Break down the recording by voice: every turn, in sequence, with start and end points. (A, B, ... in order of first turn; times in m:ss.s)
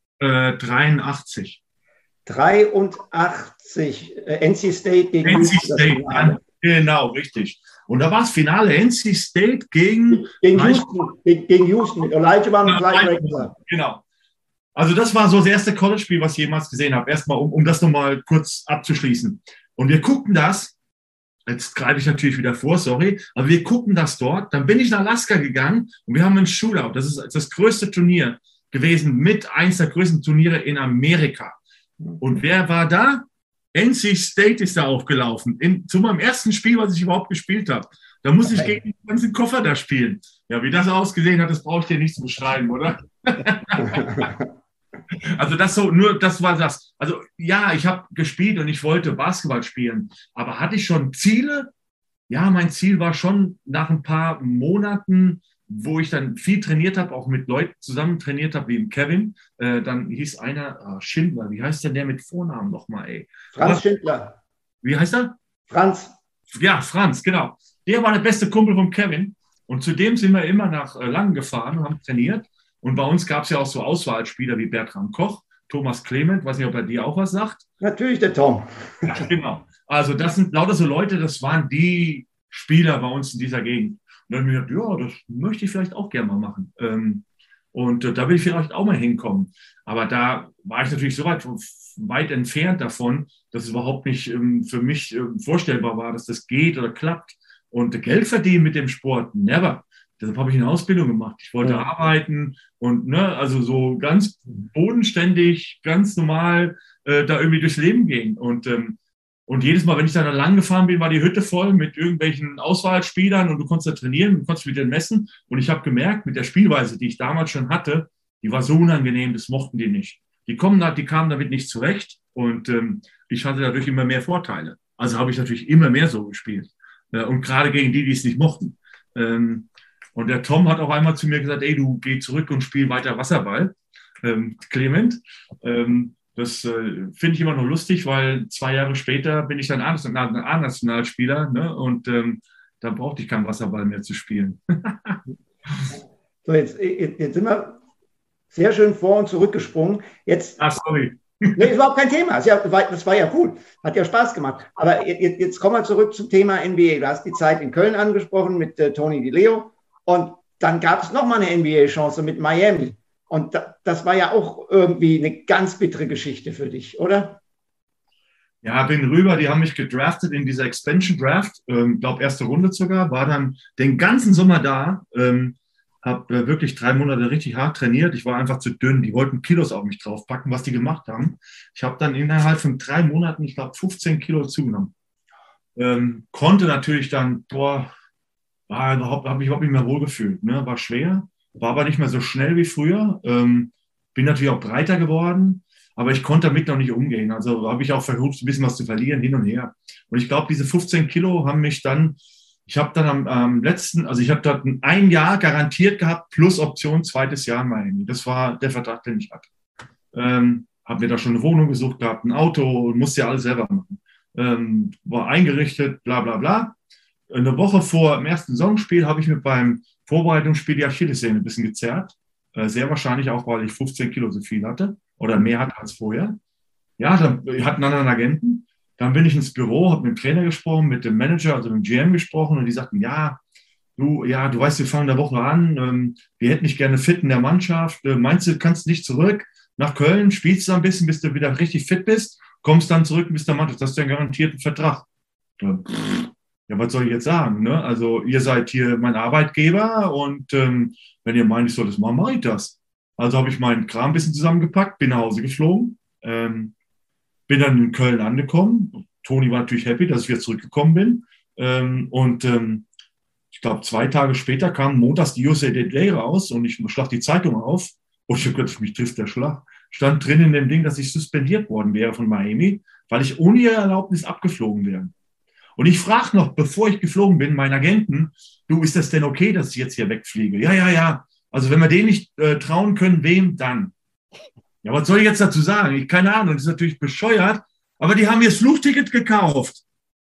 0:00.2-0:01.6 A
0:02.2-0:06.4 B
0:05.2-0:10.9 A
0:10.1-0:13.5 B
0:12.6-0:14.0 A
0:14.7-0:20.8 A
0:21.5-0:31.6 A
0:32.2-0:44.3 A
0:45.1-0:51.7 A
0:52.3-1:03.8 A
1:03.5-1:04.4 B
1:04.8-1:05.4 A
1:05.7-1:06.1 B
1:06.5-1:17.6 A
1:17.8-1:19.2 B
1:19.1-2:25.9 A
2:26.4-2:27.8 B
2:28.5-2:30.6 B
2:30.6-2:31.7 A
2:31.6-2:47.4 B
2:48.6-3:04.9 A
3:05.8-3:07.9 A
3:08.7-3:29.5 A
3:30.1-3:36.8 A
3:37.3-3:46.4 A
3:47.0-3:53.4 A
3:54.0-4:05.1 A
4:05.6-4:16.7 A
4:17.5-4:22.9 A
4:23.5-4:35.1 A
4:35.8-4:43.9 A
4:44.8-4:49.8 A